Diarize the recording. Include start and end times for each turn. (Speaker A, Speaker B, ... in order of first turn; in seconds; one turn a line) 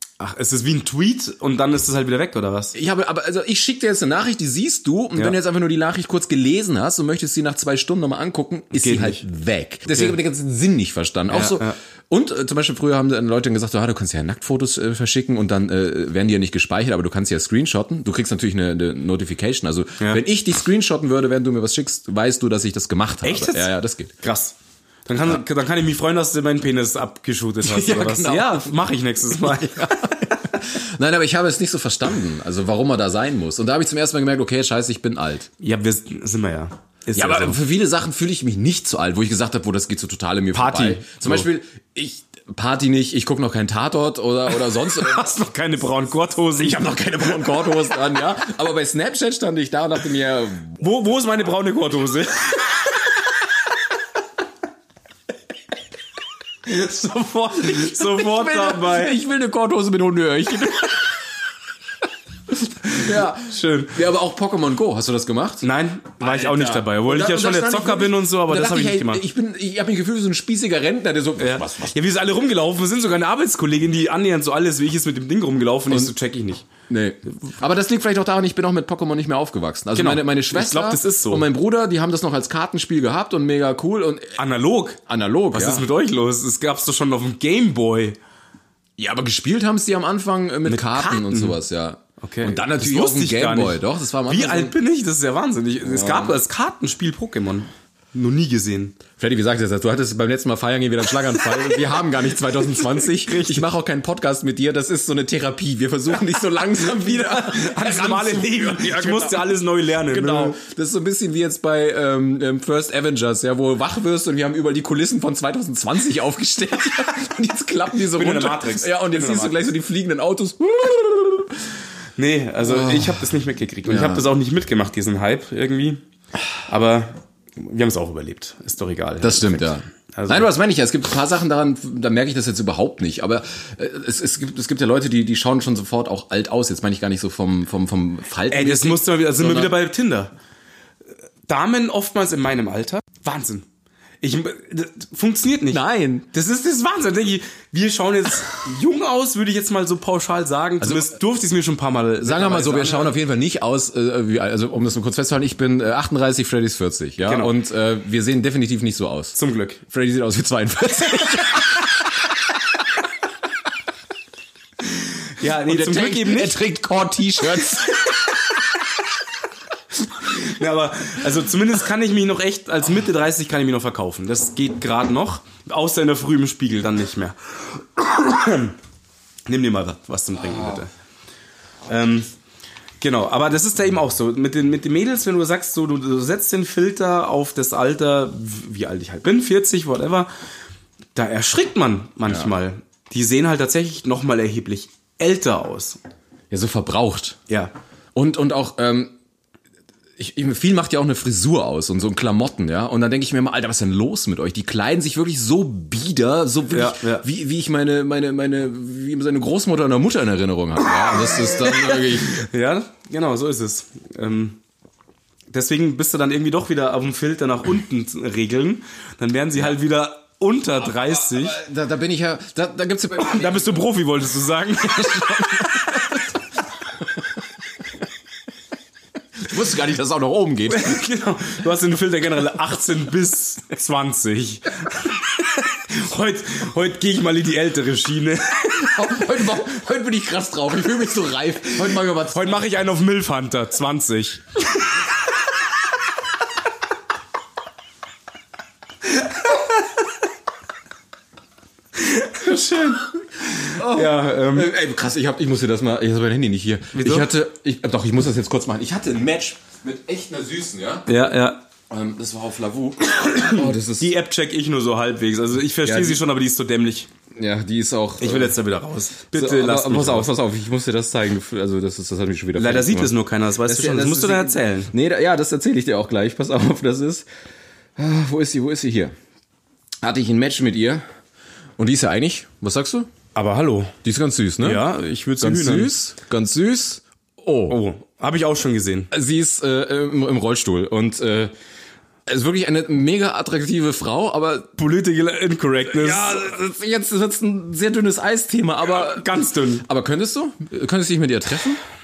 Speaker A: 0.2-2.7
Speaker B: 2.7-24.1
Speaker A: 8.7-9.2
Speaker A: 9.9-10.2
Speaker A: 11.3-11.8
Speaker A: 23.2-30.6
Speaker B: 27.6-28.7
Speaker B: 30.6-35.5
Speaker A: 35.6-37.6
Speaker B: 37.1-45.3
Speaker A: 40.5-41.5
Speaker A: 44.7-46.9
Speaker B: 46.6-50.8
Speaker A: 50.8-52.9
Speaker A: 56.6-59.2
Speaker B: 57.7-61.1
Speaker B: 62.8-65.7
Speaker A: 62.9-64.0
Speaker A: 65.6-69.2
Speaker B: 66.2-72.0
Speaker A: 71.4-76.7
Speaker B: 76.9-84.4
Speaker A: 79.9-81.5
Speaker A: 84.4-85.0
Speaker B: 85.1-85.8
Speaker A: 85.5-88.2
Speaker B: 89.0-94.7
Speaker A: 90.6-91.6
Speaker A: 92.2-99.0
Speaker B: 95.8-96.4
Speaker B: 99.2-121.7
Speaker A: 102.8-103.7
Speaker A: 106.8-110.6
Speaker A: 118.1-119.7
Speaker A: 122.2-126.0
Speaker B: 122.6-123.3
Speaker B: 123.8-124.2
Speaker A: 126.7-130.5
Speaker B: 129.2-139.7
Speaker A: 138.5-140.3
Speaker A: 141.4-143.7
Speaker A: 144.2-153.2
Speaker B: 145.7-146.2
Speaker B: 150.8-151.1
Speaker B: 152.2-159.4
Speaker A: 157.2-157.5
Speaker A: 159.3-159.8
Speaker B: 159.9-161.9
Speaker A: 165.3-166.6
Speaker B: 165.6-168.0
Speaker A: 170.2-178.8
Speaker A: 179.5-180.9
Speaker A: 181.9-182.3
Speaker A: 183.0-190.3
Speaker A: 191.1-196.0
Speaker B: 196.5-197.4
Speaker B: 198.1-199.1
Speaker B: 200.2-212.4
Speaker A: 206.7-207.2
Speaker A: 211.0-214.6
Speaker A: 215.5-221.6
Speaker B: 220.8-223.8
Speaker A: 223.2-226.0
Speaker B: 225.0-226.0
Speaker B: 229.4-231.0
Speaker A: 230.7-238.9
Speaker B: 238.7-242.6
Speaker A: 242.3-244.9
Speaker A: 249.0-249.8
Speaker A: 251.9-254.7
Speaker B: 253.7-261.1
Speaker A: 256.9-257.3
Speaker A: 261.1-261.6
Speaker B: 261.9-264.1
Speaker A: 263.0-267.1
Speaker B: 265.8-266.2
Speaker B: 267.4-268.6
Speaker A: 268.2-270.3
Speaker B: 269.3-273.1
Speaker A: 272.5-274.9
Speaker B: 273.6-277.2
Speaker B: 278.0-279.1
Speaker B: 280.0-281.0
Speaker B: 281.8-283.1
Speaker A: 283.3-283.9
Speaker B: 284.0-284.9
Speaker A: 284.6-285.9
Speaker B: 285.4-287.8
Speaker A: 287.7-289.1
Speaker B: 289.1-291.5
Speaker B: 292.3-294.7
Speaker A: 294.8-296.6
Speaker B: 295.9-301.8
Speaker A: 298.9-299.8